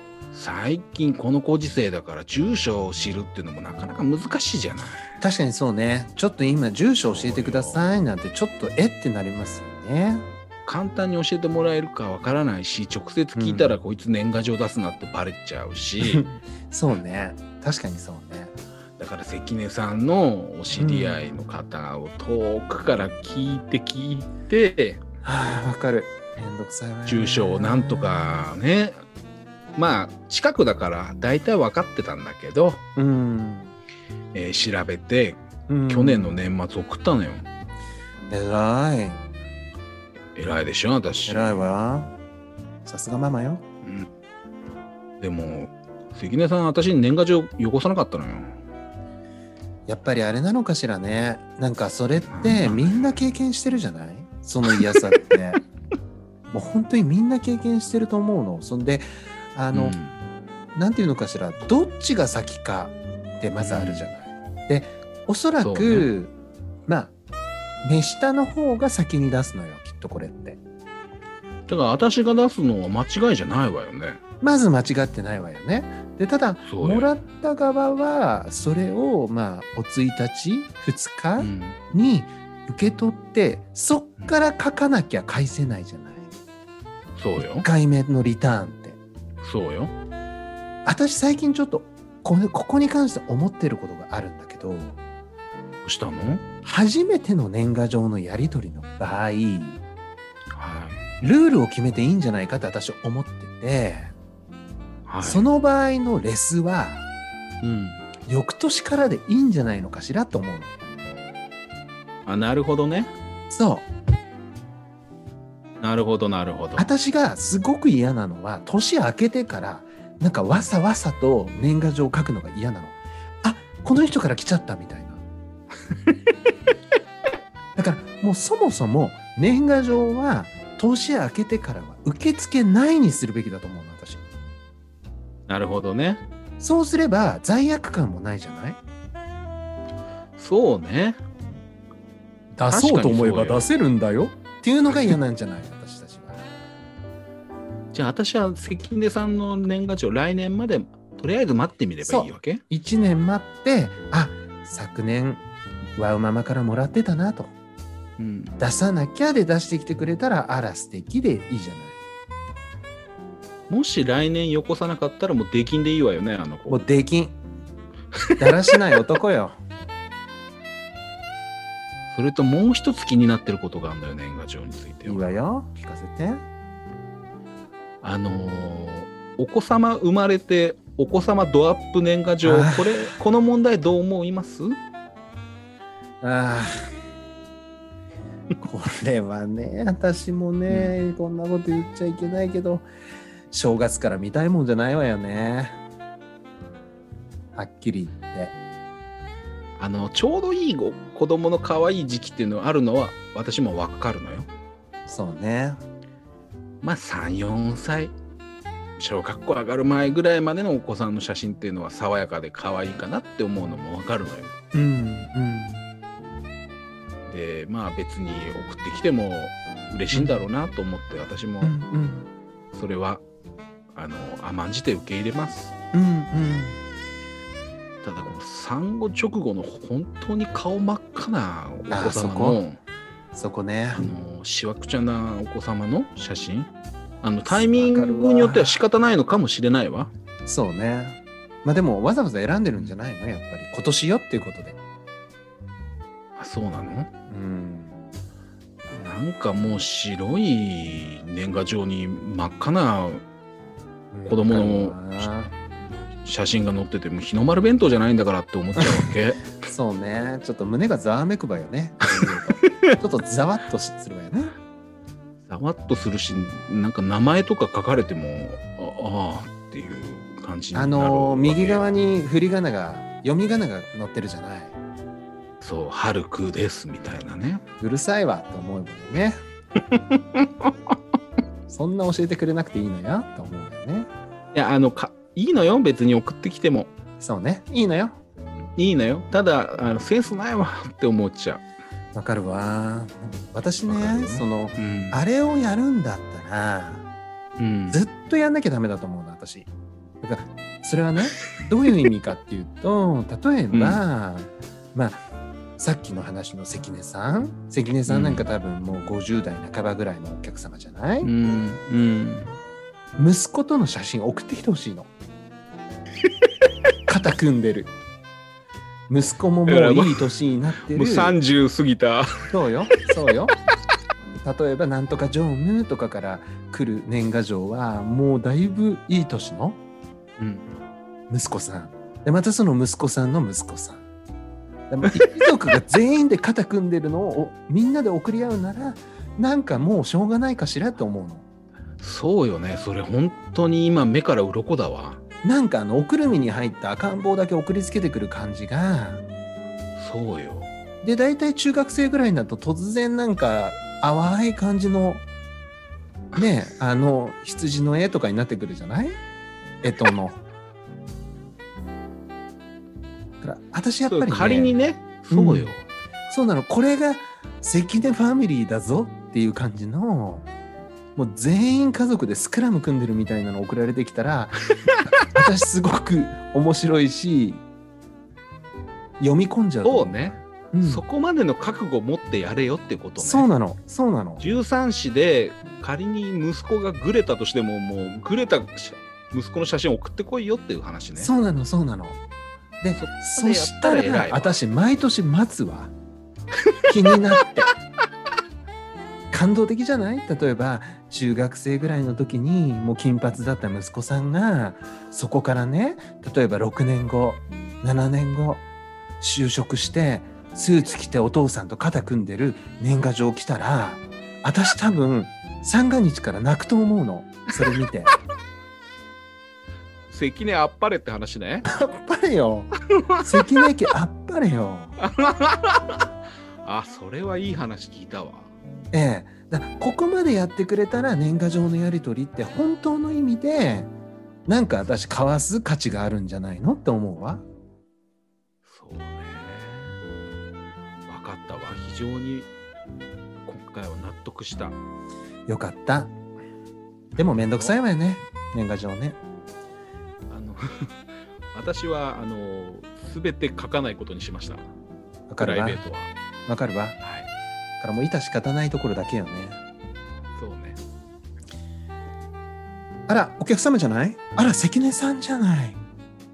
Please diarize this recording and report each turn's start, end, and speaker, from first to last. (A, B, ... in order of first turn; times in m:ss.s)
0:00.3-0:05.1 A
0:05.2-0:10.2 B
0:07.0-0:07.8 A
0:10.6-0:16.2 A
0:13.3-0:13.8 B
0:16.0-0:18.5 B
0:19.0-0:25.0 A
0:20.8-0:21.2 B
0:25.2-0:28.4 B
0:27.1-0:29.0 A
0:29.8-0:32.8 A
0:33.0-0:33.7 B
0:34.3-0:37.5 A
0:35.7-0:36.4 B
0:38.3-0:39.2 B
0:40.3-0:41.7 A
0:41.2-0:42.1 B
0:42.8-0:43.6 B
0:43.8-0:44.1 A
0:45.2-0:48.5 A
0:49.9-0:55.6 B
0:52.2-0:53.2 A
0:54.7-0:55.0 A
0:56.5-1:00.0 B
0:59.7-1:00.2 A
1:00.7-1:06.3 B
1:03.6-1:04.1 A
1:05.6-1:06.1 A
1:06.9-1:07.1 B
1:07.8-1:10.6 B
1:11.7-1:14.2 A
1:14.4-1:26.3 B
1:16.6-1:17.1 A
1:21.4-1:21.8 A
1:27.2-1:27.7 A
1:27.4-1:29.0 B
1:29.4-1:29.9 A
1:30.8-1:35.0 B
1:35.8-1:36.4 A
1:36.6-1:39.8 B
1:40.5-1:41.0 A
1:41.2-1:44.1 B
1:45.1-1:45.4 A
1:45.2-1:47.0 B
1:47.6-1:48.0 A
1:48.3-1:50.7 B
1:52.2-1:53.1 A
1:53.5-1:53.9 B
1:55.8-1:56.9 A
1:56.8-2:05.2 B
2:07.8-2:14.2 B
2:15.5-2:16.2 A
2:16.6-2:18.8 B
2:20.4-2:21.2 A
2:22.5-2:26.5 B
2:22.7-2:23.6 A
2:24.8-2:25.2 A
2:27.9-2:32.6 A
2:32.0-2:35.4 B
2:36.0-2:37.5 B
2:38.2-2:38.5 A
2:38.6-2:42.0 B
2:43.7-2:46.9 A
2:46.7-2:47.4 B
2:48.1-2:48.5 A
2:48.4-2:49.6 B
2:52.1-2:55.3 A
2:55.0-2:56.4 B
2:58.0-3:04.7 A
3:02.4-3:03.2 B
3:06.2-3:06.9 B
3:08.6-3:12.9 B
3:10.7-3:10.9 A
3:13.5-3:15.8 B
3:17.6-3:18.6 B
3:19.8-3:24.5 A
3:25.1-3:25.8 B
3:26.8-3:28.1 A
3:29.0-3:34.5 A
3:34.7-3:35.8 B
3:37.3-3:41.7 A
3:40.1-3:40.4 B
3:41.6-3:42.3 B
3:42.7-3:43.2 A
3:43.9-3:45.7 A
3:45.9-3:46.8 B
3:48.0-3:52.8 A
3:51.9-3:52.6 B
3:53.3-3:54.1 B
3:54.0-3:56.7 A
3:57.2-4:00.1 A
3:57.4-3:58.8 B
4:00.4-4:04.8 B
4:06.4-4:07.1 A
4:07.3-4:08.0 B
4:08.9-4:13.2 A
4:14.1-4:15.5 B
4:14.2-4:15.3 A
4:16.2-4:19.4 A
4:18.8-4:19.0 B
4:19.6-4:24.5 B
4:22.2-4:23.0 A
4:25.5-4:31.9 A
4:30.7-4:34.7 B
4:35.6-4:37.6 A
4:37.8-4:39.4 B
4:39.9-4:41.0 A
4:41.7-4:44.1 B
4:44.5-4:46.9 A
4:47.2-4:48.2 B
4:48.8-4:51.6 A
4:52.1-4:57.0 B
4:53.8-4:55.2 A
4:57.6-4:58.0 A
4:57.9-4:59.7 B
5:00.2-5:05.2 B
5:03.7-5:04.0 A
5:05.8-5:11.3 B
5:08.1-5:08.5 A
5:11.2-5:12.6 A
5:13.2-5:15.1 B
5:17.1-5:17.9 B
5:19.1-5:21.4 B
5:19.6-5:23.0 A
5:22.5-5:23.5 B
5:24.4-5:29.8 B
5:30.4-5:30.6 A
5:31.3-5:34.0 B
5:34.9-5:41.4 B
5:42.0-5:45.2 A
5:45.4-5:49.2 B
5:50.0-5:50.7 A
5:51.0-5:55.2 B
5:56.4-5:59.2 B
5:59.8-6:00.4 B
6:03.4-6:04.7 B
6:04.0-6:05.9 A
6:05.3-6:05.7 B
6:06.3-6:10.5 B
6:11.2-6:14.6 B
6:15.2-6:17.6 B
6:19.2-6:21.0 B
6:19.8-6:23.5 A
6:23.2-6:24.4 B
6:24.4-6:31.3 A
6:31.2-6:32.2 B
6:32.8-6:35.9 B
6:32.9-6:34.6 A
6:36.9-6:37.7 B
6:37.1-6:37.7 A
6:39.3-6:48.6 B
6:49.2-6:58.2 B
7:00.1-7:01.6 A
7:01.6-7:05.0 B
7:03.0-7:03.6 A
7:05.0-7:06.1 A
7:06.6-7:08.5 A
7:08.9-7:13.9 B
7:14.5-7:17.4 B
7:18.6-7:20.0 A
7:21.1-7:22.5 A
7:23.4-7:24.8 A
7:25.5-7:26.1 B
7:27.2-7:29.2 B
7:27.2-7:27.8 A
7:30.3-7:30.9 A
7:31.5-7:34.6 A
7:35.3-7:35.8 B
7:35.4-7:36.1 A
7:36.5-7:37.0 B
7:37.0-7:37.3 A
7:37.8-7:39.6 B
7:40.4-7:40.8 A
7:43.1-7:45.8 B